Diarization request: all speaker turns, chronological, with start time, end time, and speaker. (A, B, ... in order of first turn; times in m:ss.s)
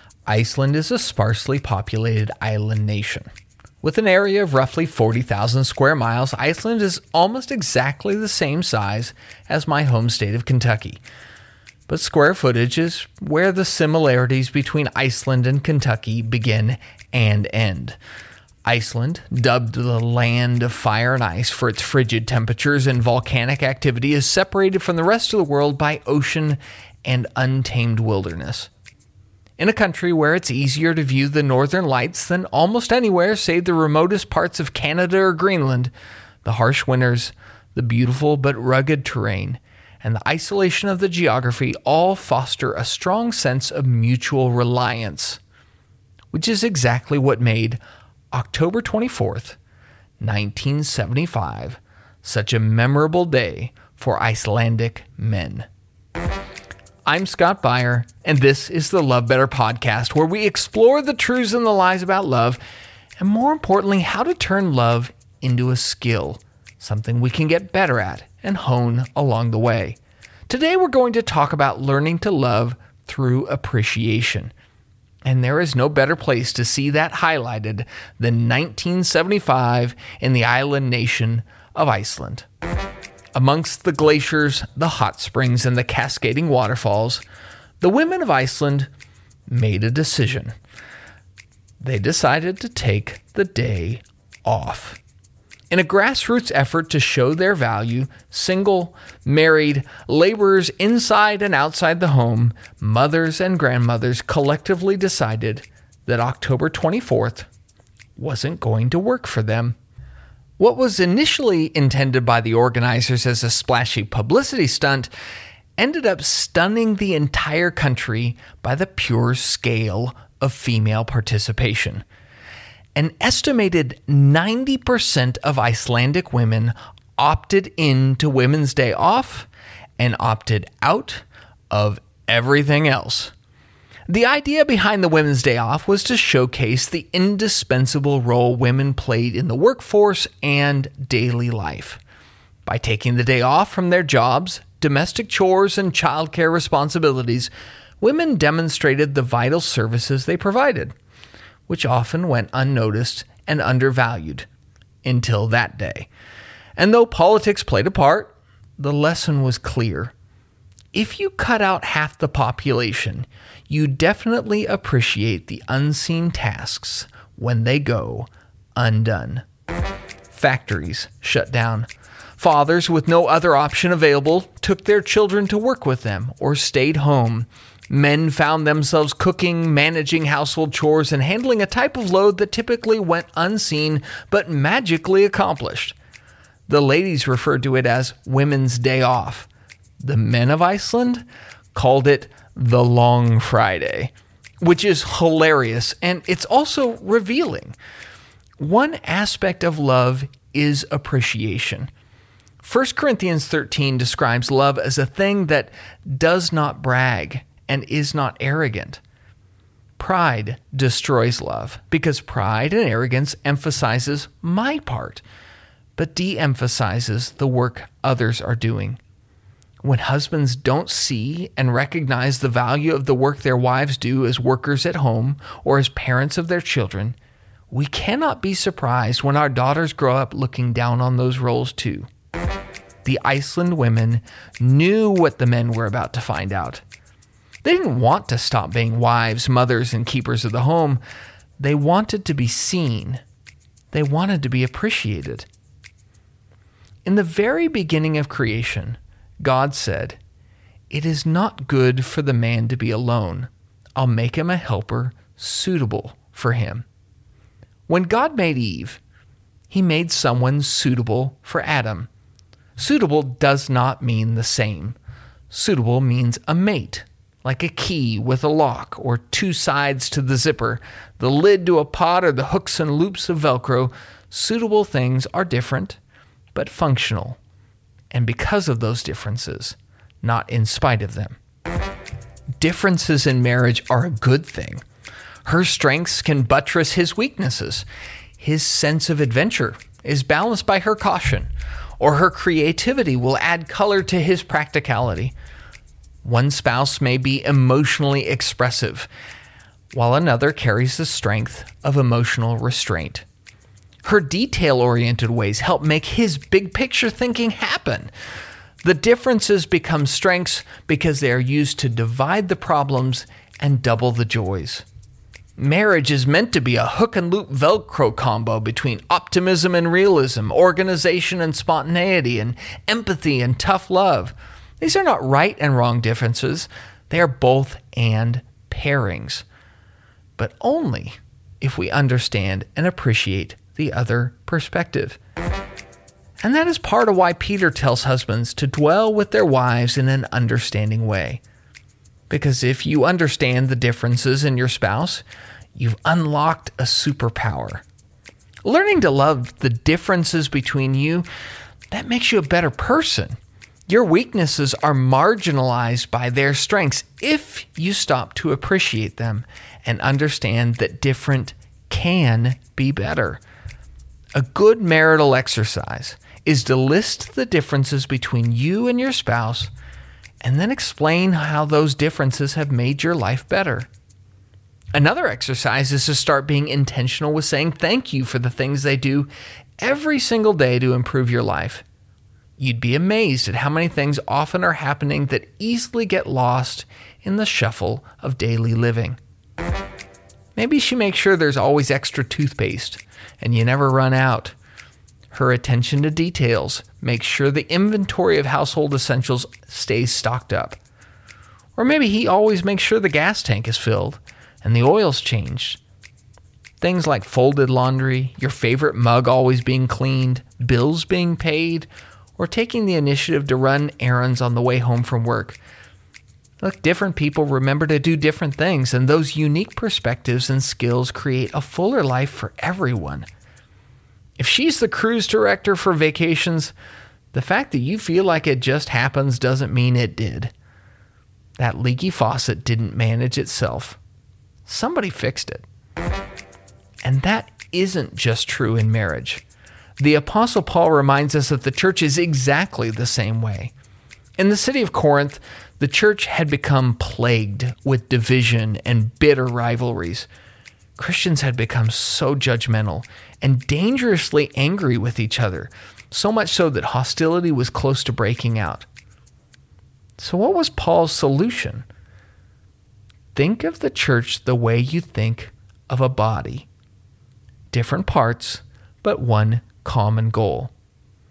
0:00.3-0:03.3 A
0:03.8-0:11.0 A
0:11.9-0:18.0 A
0:18.6-0:28.7 A
0:29.6-0:35.9 A
0:36.4-0:45.4 A
0:46.3-0:47.8 A
0:48.3-0:49.6 A
0:50.2-0:55.7 A
0:57.1-1:02.6 A
1:03.2-1:10.0 A
1:10.5-1:14.5 A
1:15.3-1:22.5 A
1:23.4-1:27.2 A
1:27.8-1:28.9 A
1:29.5-1:30.5 A
1:31.8-1:35.0 A
1:35.7-1:47.5 A
1:48.2-1:49.8 A
1:50.6-1:55.1 A
1:55.8-2:02.0 A
2:03.0-2:13.3 A
2:14.1-2:22.0 A
2:22.7-2:31.0 A
2:31.7-2:34.5 A
2:35.0-2:36.1 A
2:36.8-2:40.1 A
2:40.9-2:49.5 A
2:50.3-3:06.0 A
3:06.7-3:09.5 A
3:10.0-3:17.8 A
3:18.6-3:21.9 A
3:22.6-3:29.0 A
3:30.0-3:35.2 A
3:36.0-3:39.0 A
3:39.8-3:47.2 A
3:47.7-3:52.1 A
3:53.0-3:56.8 A
3:57.6-4:01.0 A
4:01.6-4:03.2 A
4:03.9-4:05.5 A
4:07.0-4:10.2 A
4:10.9-4:16.8 A
4:17.9-4:19.0 A
4:19.7-4:22.1 A
4:22.8-4:25.0 A
4:25.5-4:36.0 A
4:36.5-4:37.4 A
4:38.1-4:41.4 A
4:42.6-4:44.8 A
4:45.4-4:47.9 A
4:48.4-4:55.3 A
4:56.2-4:59.1 A
4:59.9-5:03.2 A
5:04.0-5:08.1 A
5:08.8-5:14.8 A
5:15.6-5:29.5 A
5:30.4-5:35.2 A
5:36.4-5:41.4 A
5:42.3-5:45.2 A
5:45.8-5:47.8 A
5:48.6-5:51.3 A
5:51.9-5:53.4 A
5:53.9-6:03.4 A
6:04.4-6:09.7 A
6:10.4-6:13.9 A
6:15.0-6:19.3 A
6:19.8-6:21.8 A
6:22.6-6:29.2 A
6:30.6-6:34.6 A
6:35.3-6:40.8 A
6:41.8-6:45.8 A
6:46.8-6:55.6 A
6:56.6-7:03.3 A
7:04.4-7:06.7 A
7:07.3-7:10.5 A
7:11.6-7:14.0 A
7:14.6-7:15.6 A
7:17.0-7:19.4 A
7:20.0-7:23.7 A
7:24.4-7:30.3 A
7:31.0-7:38.9 A
7:40.2-7:41.9 A
7:43.3-7:46.7 A
7:47.7-7:50.7 A